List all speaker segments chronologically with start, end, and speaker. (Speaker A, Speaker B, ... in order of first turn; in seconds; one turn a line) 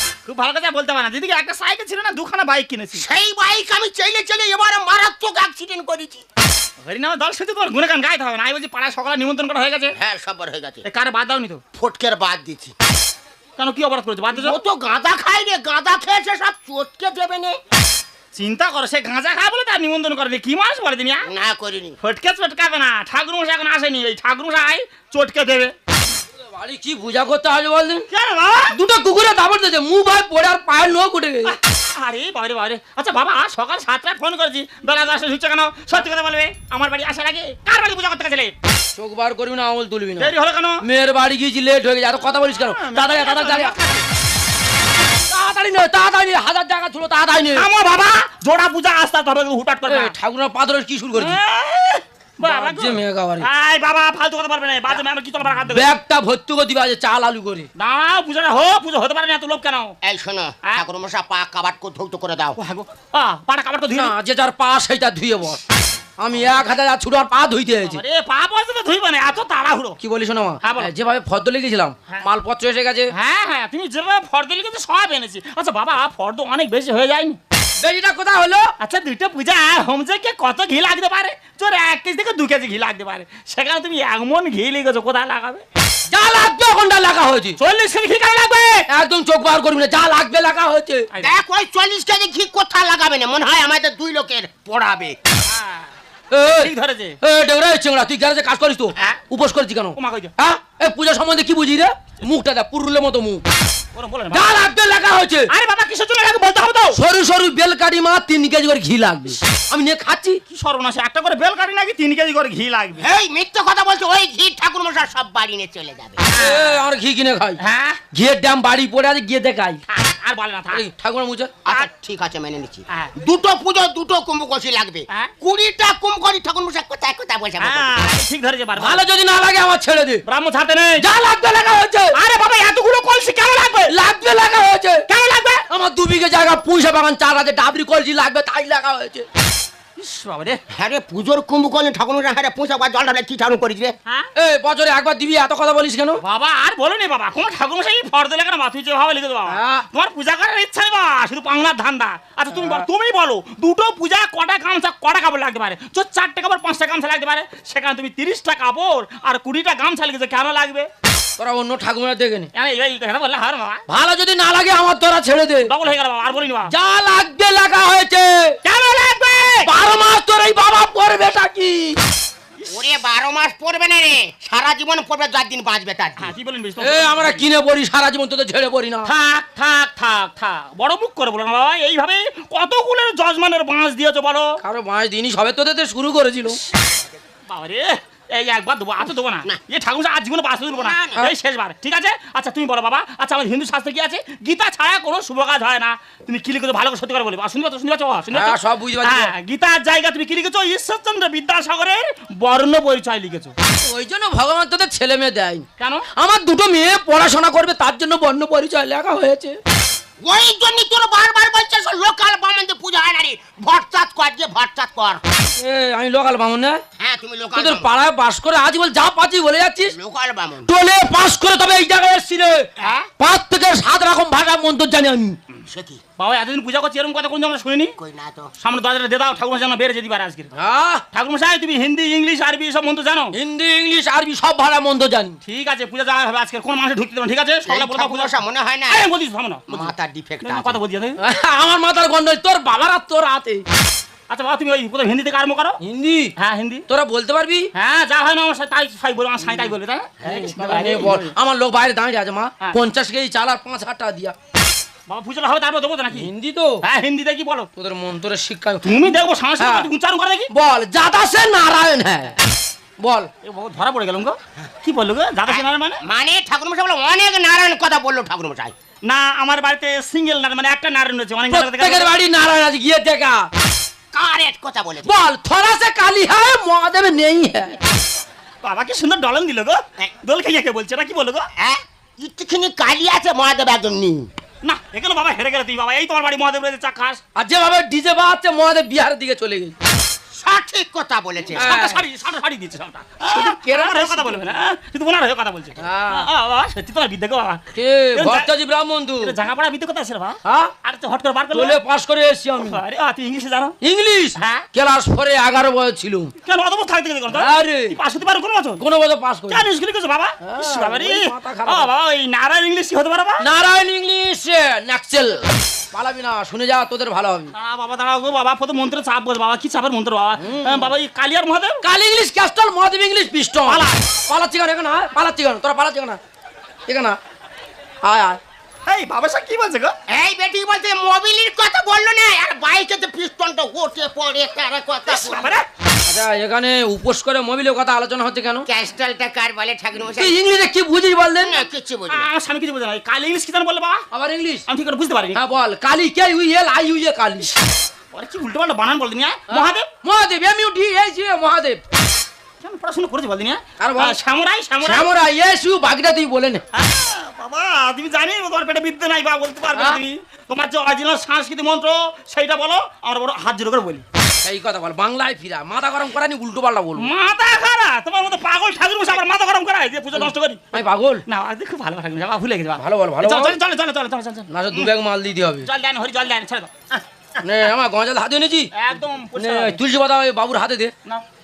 Speaker A: 0.2-3.0
Speaker B: 2.9-6.2
Speaker A: 6.8-9.9
Speaker B: 9.9-10.8
Speaker A: 10.8-11.6
Speaker B: 11.8-12.7
Speaker A: 13.6-14.6
Speaker B: 14.3-17.6
Speaker A: 18.4-21.3
Speaker B: 21.2-21.9
Speaker A: 22.0-25.7
Speaker C: 26.5-28.1
Speaker A: 28.1-28.7
Speaker C: 28.7-31.6
Speaker A: 31.4-38.5
Speaker C: 39.0-43.8
Speaker A: 40.2-40.8
Speaker A: 42.5-44.0
Speaker C: 45.3-47.7
Speaker A: 47.5-50.1
Speaker C: 49.9-51.4
Speaker A: 51.2-55.9
Speaker C: 52.4-53.5
Speaker C: 55.7-57.7
Speaker A: 57.8-60.0
Speaker B: 60.0-62.6
Speaker A: 62.6-64.1
Speaker C: 63.9-65.6
Speaker C: 66.2-68.0
Speaker A: 67.8-70.0
Speaker C: 70.0-73.1
Speaker A: 70.7-70.9
Speaker A: 73.1-77.4
Speaker C: 77.8-78.7
Speaker A: 78.8-85.6
Speaker C: 86.1-87.6
Speaker A: 87.6-88.9
Speaker C: 88.9-91.1
Speaker B: 91.2-95.2
Speaker A: 95.5-95.9
Speaker C: 96.3-103.5
Speaker A: 96.6-97.2
Speaker A: 100.0-100.3
Speaker A: 104.0-104.6
Speaker C: 104.3-105.5
Speaker A: 105.5-107.0
Speaker C: 106.9-110.4
Speaker A: 110.5-113.1
Speaker B: 113.0-116.3
Speaker A: 116.3-116.8
Speaker C: 116.3-117.6
Speaker A: 117.6-118.0
Speaker C: 118.1-119.8
Speaker A: 119.9-120.8
Speaker C: 120.7-121.5
Speaker B: 121.7-128.1
Speaker A: 127.6-129.0
Speaker C: 128.8-130.2
Speaker A: 130.3-131.1
Speaker C: 131.0-132.2
Speaker A: 132.1-133.9
Speaker C: 133.9-135.1
Speaker A: 135.1-135.7
Speaker C: 135.7-139.3
Speaker A: 140.0-140.6
Speaker B: 140.7-143.9
Speaker C: 144.3-146.2
Speaker A: 146.2-160.9
Speaker C: 149.5-149.8
Speaker C: 152.5-152.9
Speaker C: 161.4-162.5
Speaker A: 162.5-163.8
Speaker C: 163.9-165.7
Speaker A: 165.7-166.7
Speaker C: 166.7-168.6
Speaker A: 168.7-169.7
Speaker C: 169.6-172.0
Speaker B: 172.7-176.3
Speaker A: 176.2-177.5
Speaker C: 176.8-179.1
Speaker A: 179.1-184.6
Speaker C: 184.6-186.6
Speaker A: 187.5-203.5
Speaker B: 190.7-191.2
Speaker C: 198.3-199.3
Speaker C: 203.8-209.6
Speaker A: 205.8-206.1
Speaker B: 210.2-215.2
Speaker C: 215.6-216.8
Speaker B: 217.0-217.9
Speaker C: 217.5-220.0
Speaker B: 219.9-220.7
Speaker C: 220.7-225.4
Speaker B: 225.7-226.0
Speaker A: 226.2-227.9
Speaker B: 228.0-228.5
Speaker A: 228.6-230.5
Speaker C: 230.6-231.0
Speaker A: 231.1-233.3
Speaker C: 233.3-235.4
Speaker A: 235.4-238.3
Speaker B: 237.7-239.1
Speaker A: 238.9-241.2
Speaker B: 239.7-240.8
Speaker C: 241.2-243.6
Speaker A: 244.3-245.8
Speaker C: 245.8-246.3
Speaker A: 246.4-246.9
Speaker C: 246.9-247.7
Speaker A: 247.7-251.3
Speaker C: 250.2-254.3
Speaker A: 255.1-256.3
Speaker C: 256.1-256.9
Speaker A: 256.8-257.7
Speaker C: 257.8-259.9
Speaker A: 258.8-260.5
Speaker C: 260.5-262.4
Speaker C: 263.0-263.3
Speaker A: 263.4-266.0
Speaker B: 265.5-268.7
Speaker A: 269.1-272.1
Speaker C: 271.5-273.5
Speaker B: 274.1-275.1
Speaker C: 275.0-277.8
Speaker A: 278.6-281.5
Speaker B: 281.6-284.3
Speaker A: 284.6-287.2
Speaker C: 287.4-289.8
Speaker B: 290.4-291.9
Speaker A: 291.5-298.5
Speaker C: 291.6-292.1
Speaker C: 293.2-294.4
Speaker C: 295.8-296.3
Speaker C: 297.7-299.4
Speaker A: 299.2-301.8
Speaker C: 300.4-300.7
Speaker C: 301.5-302.8
Speaker A: 302.6-303.8
Speaker C: 303.8-306.3
Speaker A: 304.4-304.7
Speaker A: 306.4-308.8
Speaker C: 307.3-308.0
Speaker C: 308.8-309.7
Speaker A: 309.5-313.4
Speaker C: 310.4-311.9
Speaker C: 313.4-317.5
Speaker A: 317.5-321.8
Speaker C: 320.4-320.9
Speaker C: 321.8-326.2
Speaker A: 323.7-324.0
Speaker C: 326.9-327.2
Speaker C: 328.0-328.4
Speaker A: 328.9-329.9
Speaker B: 330.1-335.5
Speaker A: 335.1-335.7
Speaker C: 336.1-338.7
Speaker B: 338.7-340.4
Speaker C: 340.1-341.7
Speaker B: 341.4-342.3
Speaker A: 342.1-344.0
Speaker C: 344.1-344.7
Speaker A: 344.7-345.4
Speaker C: 345.4-347.5
Speaker A: 348.1-349.9
Speaker C: 349.5-351.8
Speaker A: 352.6-355.1
Speaker C: 353.8-354.2
Speaker C: 354.8-356.6
Speaker A: 356.7-364.0
Speaker C: 359.8-360.0
Speaker C: 364.4-367.1
Speaker A: 367.0-374.9
Speaker C: 370.1-371.2
Speaker C: 372.8-373.6
Speaker C: 374.5-375.7
Speaker A: 375.6-377.0
Speaker C: 377.4-378.7
Speaker A: 378.8-379.9
Speaker C: 379.4-380.9